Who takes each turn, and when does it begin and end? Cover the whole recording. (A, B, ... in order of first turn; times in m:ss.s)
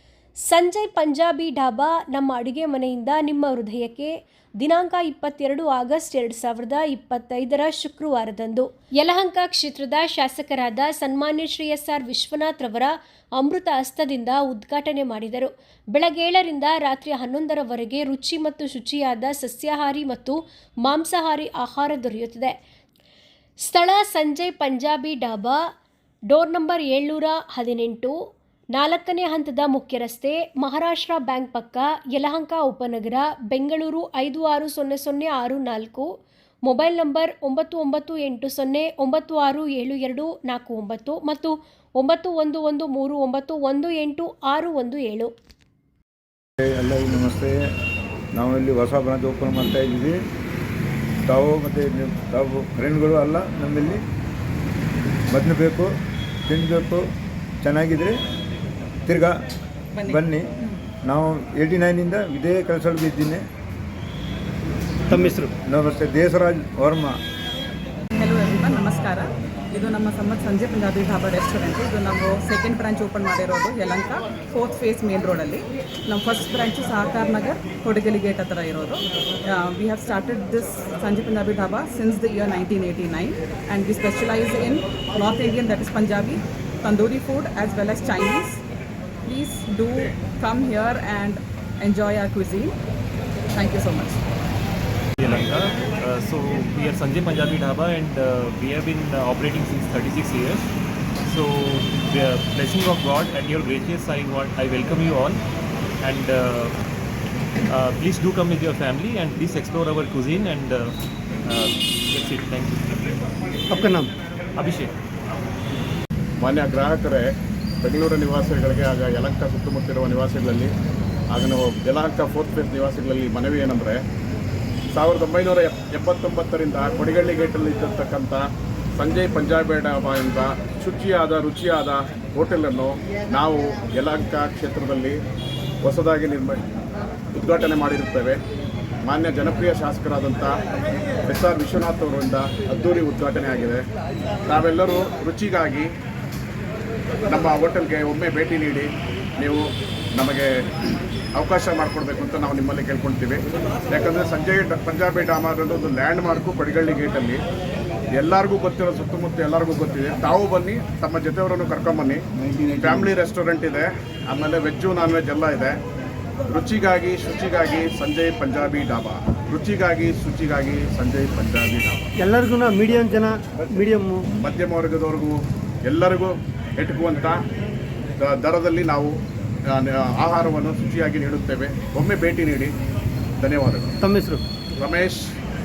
0:00.4-0:22.6 A
0:23.6-0:25.6 A
0:26.3-0:28.2 A
0:28.7-0:36.1 A
0:36.6-0:45.3 A
0:46.6-0:47.6 B
0:48.3-0:50.2 B
0:51.2-0:54.0 B
0:55.3-0:55.9 B
0:56.5-0:57.0 B
0:57.6-0:58.2 B
0:59.1-0:59.4 B
1:00.0-1:00.2 C
1:00.1-1:00.5 B
1:01.0-1:03.4 B
1:05.1-1:05.5 D
1:05.1-1:07.2 B
1:08.2-1:28.6 C
1:29.2-1:32.8 C
1:33.5-1:34.2 C
1:35.2-1:40.7 E
1:41.3-1:45.4 E
1:46.0-1:46.8 E
1:47.7-1:50.9 E
1:51.4-1:53.2 E
1:53.7-1:54.1 D
1:54.6-1:54.9 E
1:56.4-1:57.3 F
1:57.8-2:00.7 F
2:01.3-2:04.0 F
2:04.9-2:08.4 F
2:09.0-2:15.2 F
2:15.8-2:16.6 F
2:17.3-2:18.4 F
2:19.1-2:20.5 F
2:21.3-2:23.8 F
2:24.5-2:25.9 F
2:27.3-2:29.6 F
2:30.2-2:30.5 F
2:31.4-2:37.4 F
2:38.2-2:42.2 F
2:42.4-2:43.1 B
2:42.8-2:45.8 F
2:46.5-2:52.1 F
2:52.2-2:54.2 D
2:54.4-2:55.4 F
2:55.9-2:57.4 F
2:58.2-2:59.1 F
2:59.7-3:02.7 F
3:03.4-3:04.0 F
3:04.0-3:04.4 D
3:04.8-3:05.2 F